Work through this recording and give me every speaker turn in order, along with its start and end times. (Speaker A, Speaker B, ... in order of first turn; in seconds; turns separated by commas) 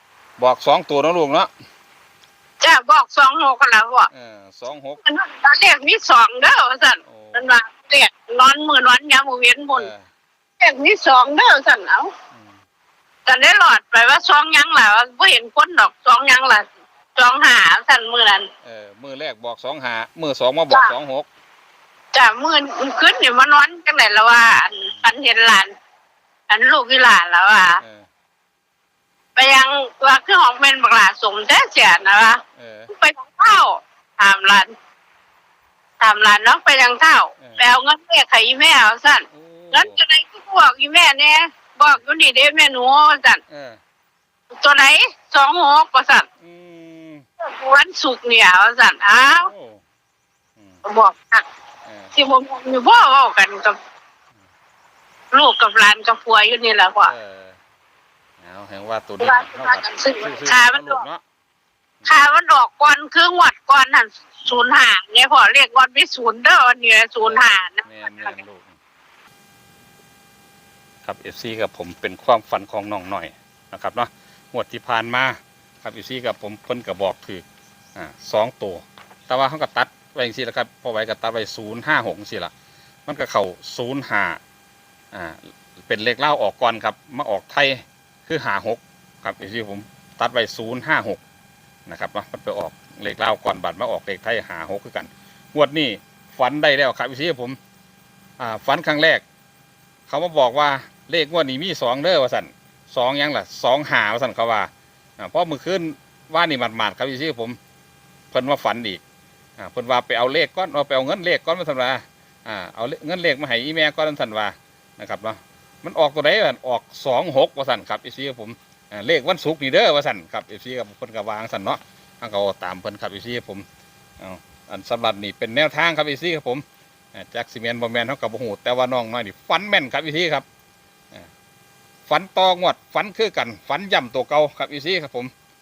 Speaker A: 0.4-1.5, Speaker B: 2.6-4.1, Speaker A: 4.1-5.0, Speaker B: 5.0-9.9, Speaker A: 7.1-7.5, Speaker A: 9.7-10.1, Speaker B: 10.6-12.1, Speaker A: 12.3-12.6, Speaker B: 13.3-18.5, Speaker A: 18.6-21.3, Speaker B: 22.1-25.7, Speaker A: 24.8-25.1, Speaker B: 26.5-27.8, Speaker A: 27.8-28.1, Speaker B: 29.4-34.7, Speaker A: 32.6-32.9, Speaker B: 36.0-43.4, Speaker A: 39.3-40.0, Speaker A: 43.5-43.8, Speaker B: 44.6-46.3, Speaker A: 46.4-47.2, Speaker B: 47.4-49.5, Speaker A: 49.2-49.8, Speaker A: 50.6-50.8, Speaker B: 50.9-51.5, Speaker A: 51.9-52.1, Speaker B: 52.1-53.8, Speaker B: 55.3-57.1, Speaker A: 57.0-57.6, Speaker A: 58.4-61.2, Speaker B: 59.2-61.1, Speaker B: 62.1-68.4, Speaker A: 67.2-68.8, Speaker A: 71.0-82.5, Speaker A: 83.1-84.4, Speaker A: 85.1-91.2, Speaker A: 91.9-97.6, Speaker A: 98.4-99.2, Speaker A: 100.1-107.6, Speaker A: 108.3-109.0, Speaker A: 109.6-123.7, Speaker A: 124.2-130.4, Speaker A: 132.1-135.3